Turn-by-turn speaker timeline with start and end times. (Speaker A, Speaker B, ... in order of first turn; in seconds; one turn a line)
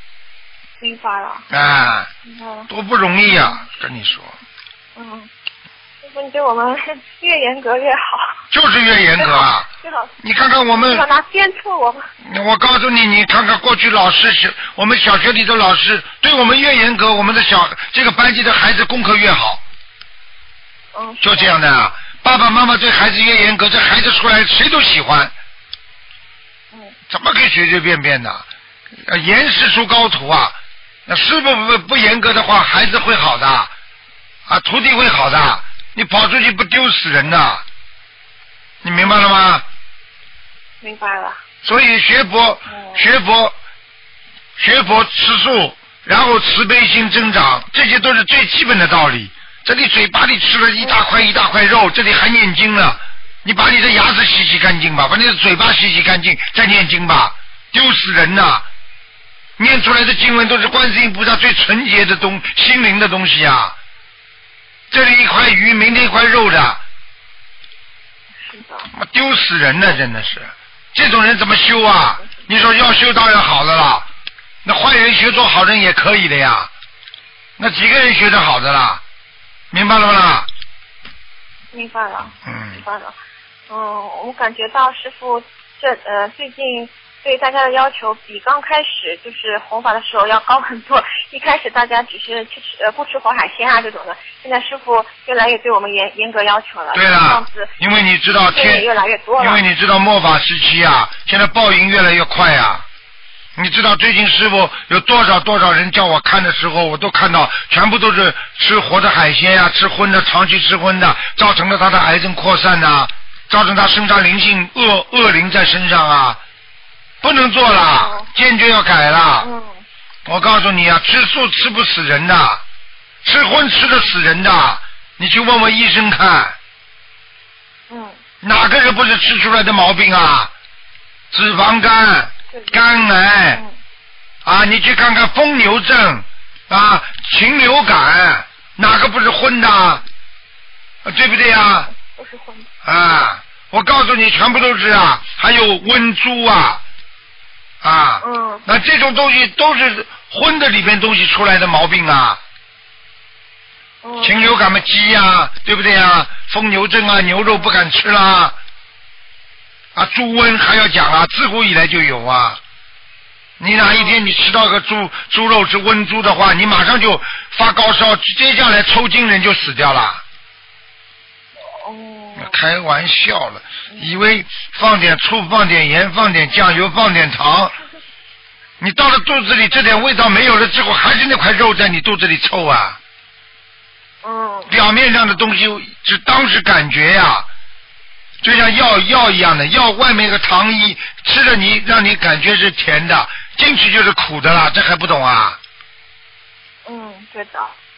Speaker A: 0.8-1.5
Speaker B: 1.5-2.1
Speaker A: 2.2-2.7
Speaker B: 2.7-4.3
Speaker A: 5.0-5.3
Speaker A: 6.0-8.4
Speaker B: 8.5-9.7
Speaker A: 9.2-10.1
Speaker B: 10.2-11.0
Speaker A: 10.7-12.0
Speaker B: 12.2-19.6
Speaker A: 20.9-21.5
Speaker B: 21.2-25.3
Speaker B: 27.1-28.4
Speaker B: 29.1-30.6
Speaker B: 31.1-33.7
Speaker B: 34.5-37.6
Speaker B: 38.8-39.6
Speaker A: 40.8-41.4
Speaker B: 41.6-43.5
Speaker A: 42.7-43.0
Speaker B: 44.6-58.6
Speaker B: 59.6-63.7
Speaker B: 64.9-66.8
Speaker A: 68.4-68.9
Speaker B: 68.9-74.0
Speaker B: 74.6-76.7
Speaker B: 77.6-79.0
Speaker B: 79.7-80.5
Speaker A: 81.7-83.2
Speaker B: 82.4-82.8
Speaker A: 83.7-97.7
Speaker B: 96.9-98.8
Speaker A: 98.5-99.6
Speaker B: 99.4-102.8
Speaker B: 103.6-116.4
Speaker B: 117.2-119.5
Speaker A: 117.7-118.2
Speaker A: 119.4-119.8
Speaker B: 120.2-122.6
Speaker B: 123.2-126.5
Speaker A: 127.9-128.2
Speaker B: 128.4-130.5
Speaker B: 131.3-133.6
Speaker B: 134.4-140.0
Speaker B: 141.0-141.9
Speaker A: 141.9-142.7
Speaker B: 142.8-146.8
Speaker B: 147.8-152.4
Speaker A: 148.2-148.6
Speaker A: 154.0-154.4
Speaker B: 154.2-158.6
Speaker B: 159.9-162.6
Speaker B: 163.6-170.2
Speaker A: 163.9-164.2
Speaker A: 171.7-172.5
Speaker B: 172.4-177.7
Speaker B: 178.8-183.0
Speaker A: 184.2-184.7
Speaker B: 184.7-187.5
Speaker B: 188.4-195.6
Speaker A: 196.8-197.7